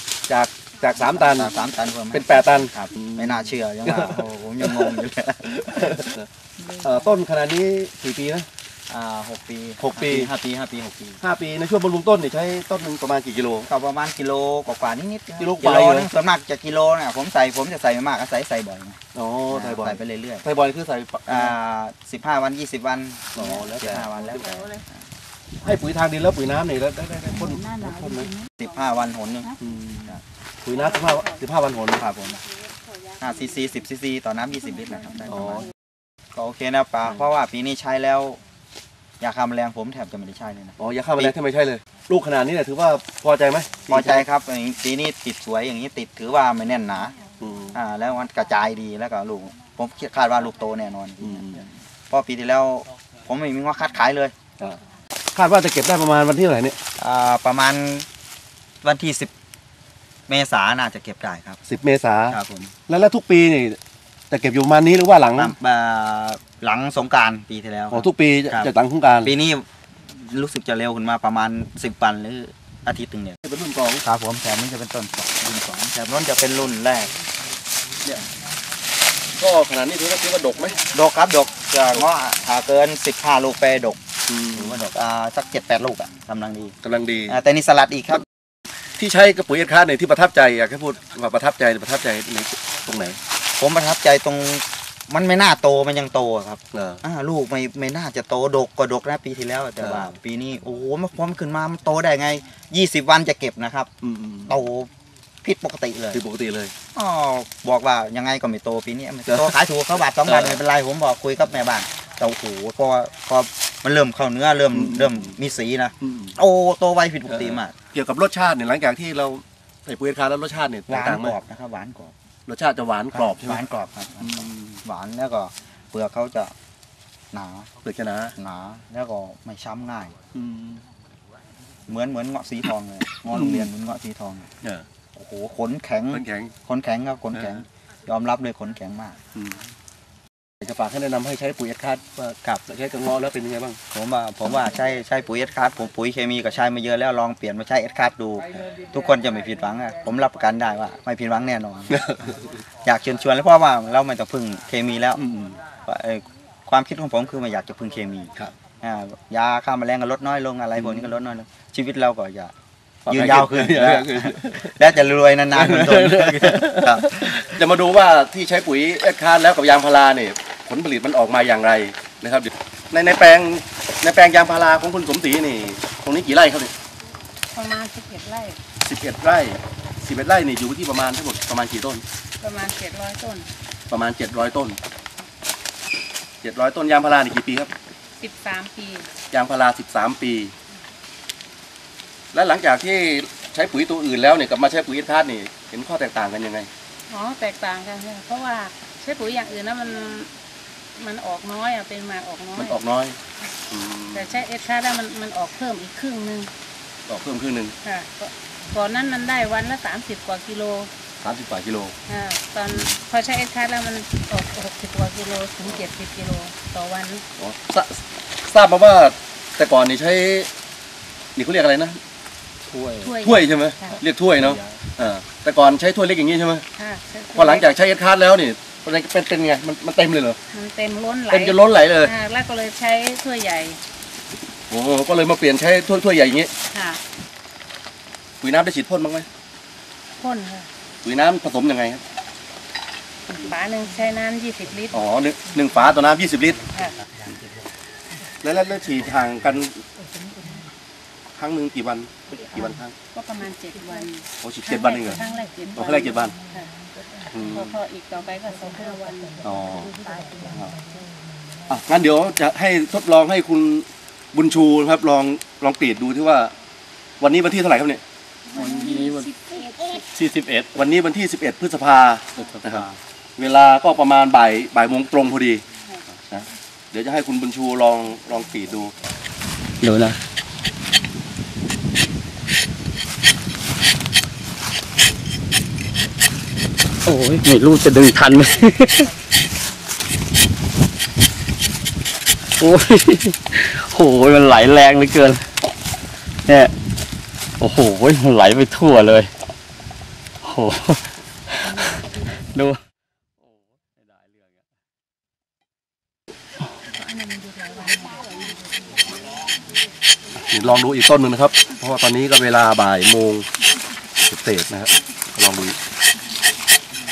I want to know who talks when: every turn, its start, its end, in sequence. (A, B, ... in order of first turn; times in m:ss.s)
0:00.3-0:01.5 A
0:01.0-0:06.2 B
0:02.1-0:05.0 A
0:05.6-0:06.2 A
0:06.8-0:08.5 A
0:08.9-0:11.2 B
0:09.8-0:10.3 A
0:11.2-0:13.7 A
0:13.7-0:20.4 B
0:15.4-0:16.1 A
0:19.1-0:21.5 A
0:21.2-0:25.0 B
0:23.3-0:24.6 A
0:25.6-0:28.3 A
0:28.6-0:29.5 B
0:29.6-0:32.1 A
0:31.0-0:31.4 C
0:32.0-0:32.4 B
0:32.7-0:33.0 C
0:33.2-0:35.7 B
0:35.3-0:35.7 A
0:36.3-0:38.4 B
0:39.2-0:41.4 B
0:40.8-0:44.2 A
0:43.9-0:47.2 B
0:47.4-0:47.8 A
0:47.7-0:54.3 B
0:51.2-0:51.6 A
0:55.3-0:56.8 A
0:57.0-0:58.0 B
0:58.8-0:59.3 B
1:00.3-1:01.6 B
1:01.7-1:03.8 A
1:02.3-1:02.7 B
1:04.3-1:05.5 A
1:05.4-1:13.4 B
1:07.9-1:09.3 A
1:13.4-1:14.0 A
1:14.0-1:17.1 B
1:19.4-1:20.8 A
1:20.9-1:24.0 B
1:24.3-1:24.8 A
1:24.5-1:26.7 B
1:26.8-1:27.4 A
1:27.3-1:28.2 B
1:29.0-1:33.2 A
1:33.6-1:43.9 B
1:36.7-1:37.0 A
1:39.8-1:40.1 A
1:44.0-1:44.6 A
1:44.5-1:44.9 B
1:45.4-1:46.2 B
1:46.1-1:46.7 A
1:46.9-1:57.7 B
1:50.2-1:50.6 A
1:54.7-1:55.3 A
1:56.0-1:56.3 A
1:57.3-2:01.4 A
2:00.9-2:02.1 B
2:02.5-2:03.6 A
2:03.1-2:06.5 B
2:04.2-2:04.8 A
2:07.3-2:07.7 B
2:07.8-2:08.3 A
2:08.4-2:10.1 B
2:10.3-2:10.8 A
2:11.9-2:14.5 B
2:13.3-2:13.7 A
2:15.1-2:19.2 B
2:16.1-2:16.5 A
2:17.3-2:17.6 A
2:20.6-2:23.8 A
2:23.9-2:32.0 B
2:31.9-2:32.3 A
2:32.8-2:35.2 B
2:35.2-2:35.6 A
2:35.8-2:42.5 B
2:40.8-2:41.1 A
2:43.0-2:44.8 A
2:43.1-2:47.1 B
2:45.5-2:56.7 A
2:57.5-2:58.6 C
2:58.8-3:02.0 A
3:02.4-3:03.5 C
3:03.9-3:04.8 A
3:06.4-3:07.7 A
3:08.2-3:09.1 C
3:09.3-3:10.5 A
3:12.3-3:16.7 A
3:17.1-3:20.3 C
3:21.0-3:22.8 C
3:22.6-3:23.2 A
3:23.7-3:24.3 A
3:24.1-3:26.5 C
3:27.1-3:27.7 A
3:27.8-3:30.9 C
3:31.2-3:31.9 A
3:32.1-3:37.2 C
3:32.7-3:32.9 A
3:37.4-3:40.5 A
3:41.4-3:42.0 A
3:43.0-3:44.0 C
3:43.0-3:46.6 A
3:46.8-3:47.7 C
3:47.3-3:50.4 A
3:50.5-3:53.8 C
3:51.3-3:52.1 A
3:54.7-3:56.5 A
3:56.7-3:57.0 C
3:58.4-3:59.2 A
4:00.2-4:00.7 C
4:01.0-4:02.0 A
4:03.3-4:05.0 C
4:04.9-4:06.6 A
4:06.7-4:07.0 C
4:08.4-4:09.8 A
4:11.4-4:12.9 A
4:13.1-4:16.7 C
4:14.4-4:15.2 A
4:15.7-4:16.3 A
4:17.3-4:17.7 A
4:17.5-4:19.4 C
4:19.4-4:19.9 A
4:21.7-4:26.5 A
4:27.2-4:28.0 A
4:28.5-4:30.0 C
4:28.6-4:29.2 D
4:30.1-4:30.7 D
4:30.7-4:35.6 A
4:36.3-4:38.9 A
4:39.8-4:40.2 D
4:47.0-4:49.1 D
4:52.6-4:55.4 D
4:56.4-4:56.7 D
4:57.6-4:59.3 D
5:00.4-5:00.9 D
5:02.5-5:02.8 D
5:10.4-5:13.5 A
5:14.2-5:15.8 A